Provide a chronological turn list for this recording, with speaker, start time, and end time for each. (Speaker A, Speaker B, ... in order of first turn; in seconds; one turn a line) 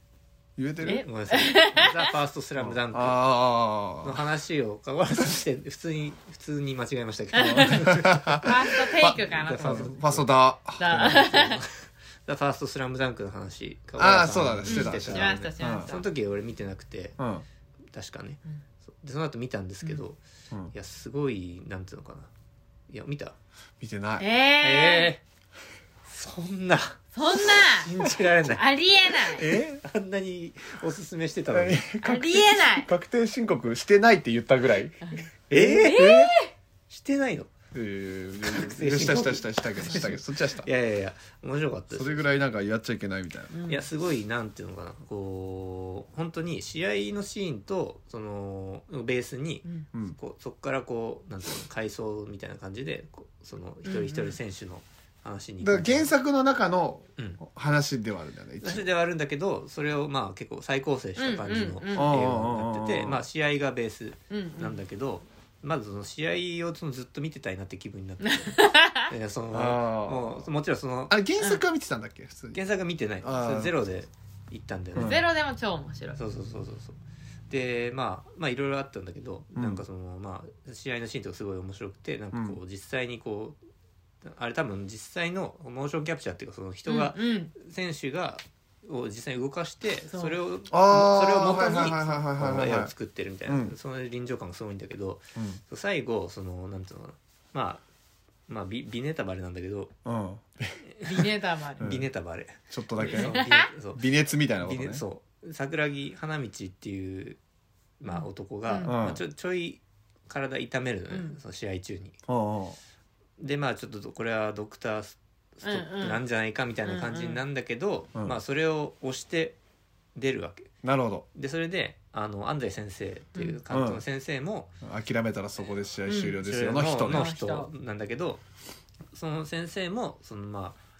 Speaker A: 0.6-1.1
Speaker B: 0.8-2.1
Speaker C: 1.0-3.2
Speaker A: 2.6-4.2
Speaker C: 4.0-8.5
Speaker B: 7.4-7.8
Speaker A: 7.4-11.2
Speaker B: 8.4-9.9
Speaker C: 9.1-10.3
Speaker B: 10.8-11.6
Speaker C: 10.9-17.2
Speaker A: 14.0-15.9
Speaker B: 14.7-16.1
Speaker A: 17.2-17.4
Speaker C: 17.9-20.2
Speaker C: 20.7-22.3
Speaker C: 22.9-23.4
Speaker A: 23.8-24.2
Speaker B: 24.2-25.1
Speaker C: 24.6-25.2
Speaker C: 26.1-31.8
Speaker B: 27.1-27.9
Speaker B: 28.5-29.4
Speaker A: 31.5-35.0
Speaker B: 32.0-32.9
Speaker B: 35.0-36.5
Speaker C: 35.5-36.1
Speaker A: 35.6-36.3
Speaker C: 36.9-37.5
Speaker A: 37.7-40.7
Speaker C: 38.4-42.1
Speaker A: 41.9-43.5
Speaker B: 43.5-43.8
Speaker C: 43.7-56.1
Speaker B: 53.8-54.4
Speaker A: 55.6-58.8
Speaker C: 58.6-71.2
Speaker B: 61.2-62.1
Speaker A: 62.0-63.2
Speaker B: 64.3-64.8
Speaker B: 68.2-69.1
Speaker A: 69.5-70.5
Speaker A: 71.1-72.6
Speaker C: 72.5-75.2
Speaker A: 73.2-73.8
Speaker A: 74.9-75.2
Speaker B: 75.0-76.2
Speaker C: 76.2-77.0
Speaker C: 77.5-83.6
Speaker A: 79.5-79.8
Speaker A: 82.3-82.6
Speaker C: 84.2-97.8
Speaker B: 86.9-87.5
Speaker B: 90.1-90.4
Speaker A: 90.7-92.9
Speaker A: 93.5-93.7
Speaker C: 98.5-99.9
Speaker A: 100.0-100.8
Speaker B: 101.0-101.8
Speaker A: 101.8-102.1
Speaker C: 101.8-104.1
Speaker A: 102.7-103.4
Speaker B: 103.0-103.7
Speaker A: 103.9-105.0
Speaker C: 104.6-107.4
Speaker C: 108.0-112.2
Speaker B: 108.1-109.0
Speaker A: 108.8-109.2
Speaker B: 111.1-111.4
Speaker A: 112.3-112.8
Speaker C: 113.4-119.6
Speaker B: 115.6-116.2
Speaker B: 116.8-117.4
Speaker C: 120.1-120.7
Speaker A: 120.8-121.2
Speaker C: 121.3-124.7
Speaker A: 123.7-124.0
Speaker A: 124.8-127.3
Speaker B: 126.1-126.4
Speaker C: 126.4-128.4
Speaker B: 127.1-127.7
Speaker C: 129.1-130.8